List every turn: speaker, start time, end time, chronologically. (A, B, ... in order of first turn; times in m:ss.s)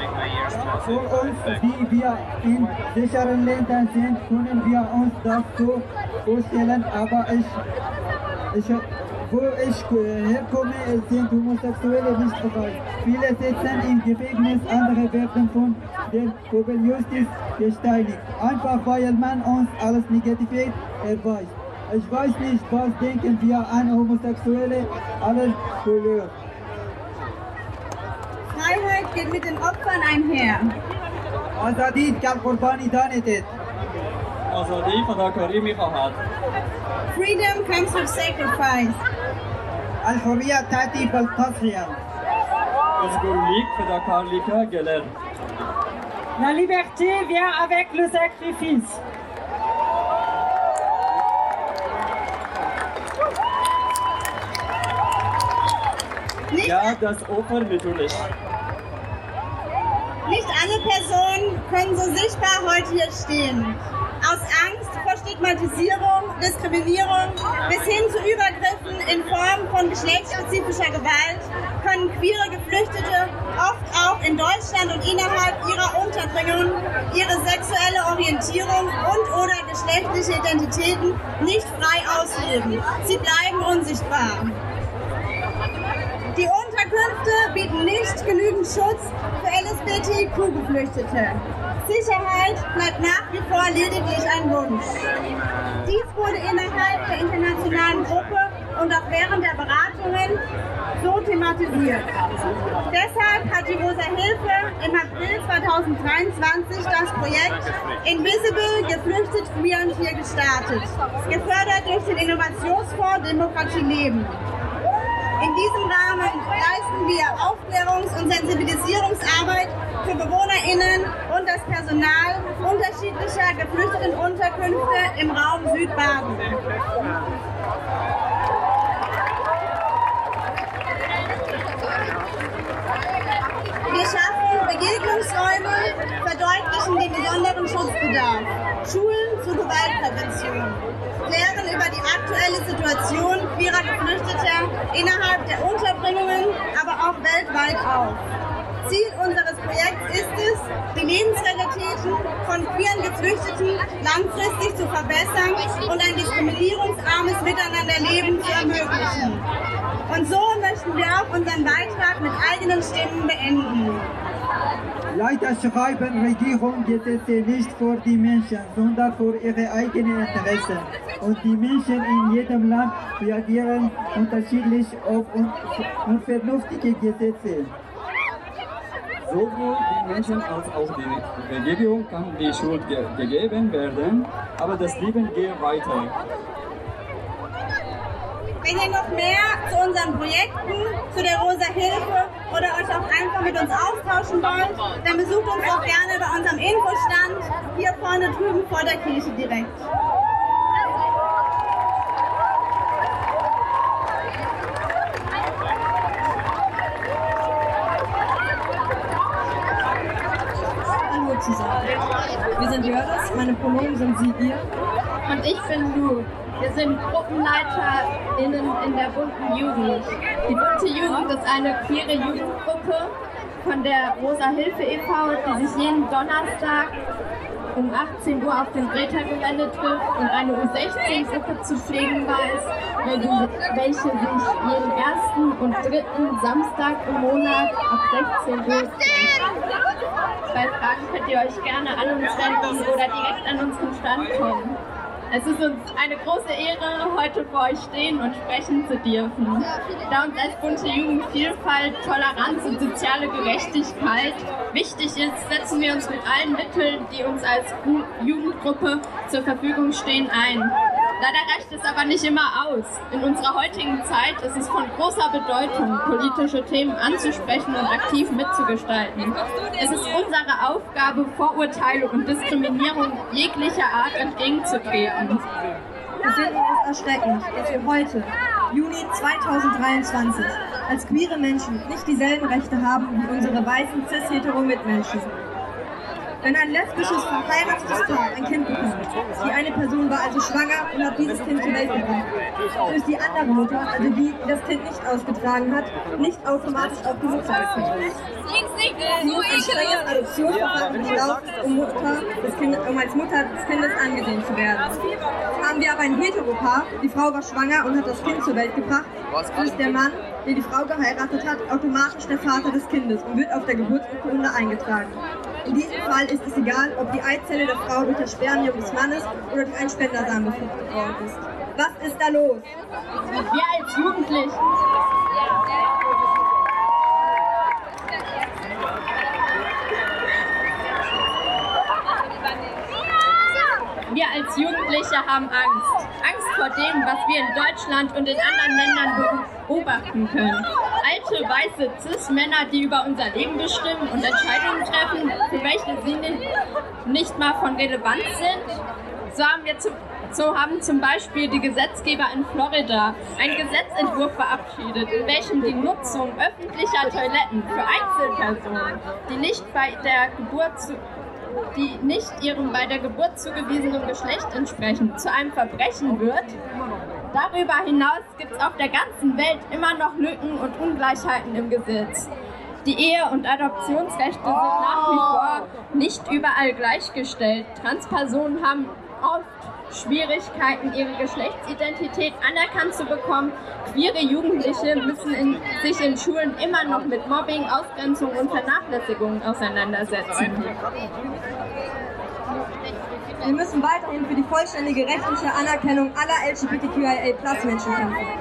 0:00.5-0:07.6 A
0:08.5-0:26.3 A
0:28.5-0:30.7 B
0:31.6-0:33.5 A
0:34.5-0:36.2 C
0:37.1-0:39.0 B
0:40.0-0:42.0 A
0:43.0-0:45.1 C
0:46.4-0:49.0 D
0:56.5-0:57.0 B
0:56.6-0:58.3 C
1:00.3-1:24.5 B
1:26.4-1:35.0 B
1:35.8-1:40.4 B
1:41.0-1:42.1 B
1:42.9-1:54.4 B
1:55.4-2:06.6 B
2:13.9-2:28.2 B
2:28.8-2:39.4 B
2:40.1-2:44.1 B
2:45.1-2:57.7 A
2:59.3-3:06.1 C
3:08.6-3:19.9 B
3:31.1-3:32.0 E
3:32.6-3:34.7 E
3:35.3-3:47.0 F
3:47.7-3:59.4 F
4:00.5-4:04.8 F
4:05.3-4:35.5 F
4:36.2-4:45.4 E
4:46.4-4:52.3 E
4:52.8-4:58.2 E
4:59.1-5:05.0 E
5:05.6-5:22.7 E
5:23.5-5:24.6 F
5:34.1-5:46.5 F
5:47.0-6:01.0 F
6:01.7-6:06.6 F
6:07.3-6:12.3 F
6:12.8-6:30.8 F
6:33.4-6:38.3 E